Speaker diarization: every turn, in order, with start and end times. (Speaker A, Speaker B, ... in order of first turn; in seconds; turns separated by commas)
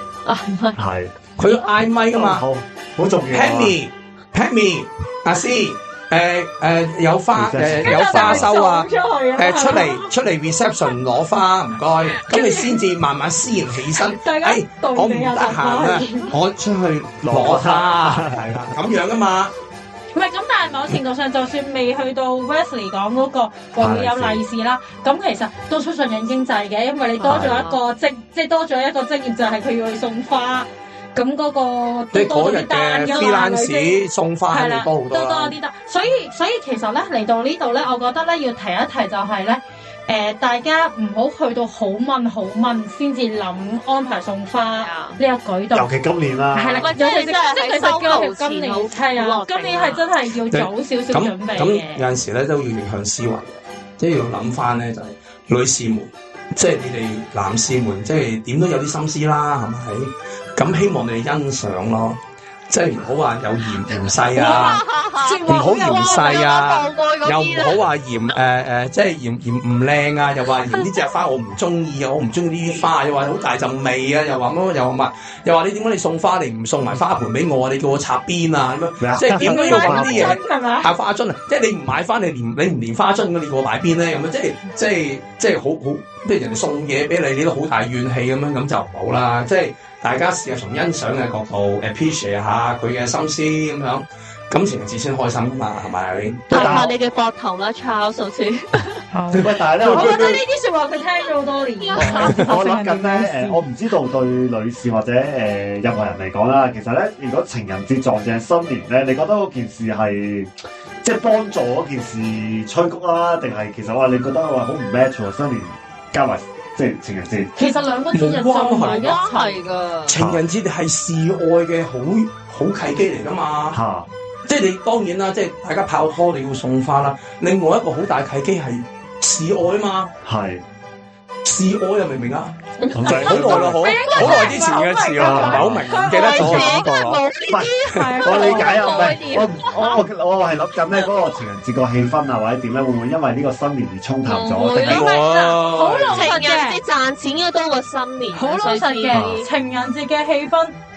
Speaker A: 0.2-0.8, Speaker B: 0.8-1.1, Speaker C: 1.4-2.4, Speaker B: 2.1-3.7, Speaker C: 3.3-19.5, Speaker B: 7.3-8.5, Speaker D: 7.8-10.1, Speaker D: 12.2-12.8, Speaker D: 13.9-16.3, Speaker B: 17.2-18.7, Speaker D: 20.1-34.0, Speaker B: 23.8-24.4, Speaker A: 27.2-27.8, Speaker B: 27.2-27.7, Speaker C: 32.1-35.5, Speaker D: 34.5-45.9, Speaker A: 44.8-45.2, Speaker B: 45.7-46.9, Speaker D: 46.5-52.0, Speaker A: 46.8-50.0, Speaker C: 50.5-62.2, Speaker C: 62.7-64.8, Speaker A: 64.3-67.8, Speaker D: 64.3-66.5, Speaker C: 65.5-96.5, Speaker B: 79.0-80.4, Speaker D: 79.3-80.9, Speaker B: 96.5-96.9, Speaker A: 96.5-99.0, Speaker D: 96.5-96.9, Speaker D: 99.1-103.6, Speaker B: 99.3-100.4, Speaker A: 101.8-102.5, Speaker B: 102.0-117.5, Speaker D: 117.6-119.6, Speaker C: 118.1-119.2, Speaker A: 118.9-120.2, Speaker C: 120.0-123.8, Speaker B: 120.1-120.4, Speaker B: 123.7-124.1, Speaker C: 124.5-130.1, Speaker B: 130.2-130.6, Speaker C: 131.4-137.2, Speaker A: 132.8-133.7, Speaker B: 132.9-134.6, Speaker D: 133.0-136.8, Speaker B: 135.2-135.8, Speaker A: 136.0-140.0, Speaker B: 137.5-145.0, Speaker D: 137.9-139.2, Speaker A: 144.2-145.6, Speaker C: 144.8-146.3, Speaker D: 144.8-146.8, Speaker A: 146.1-149.5, Speaker D: 148.3-150.7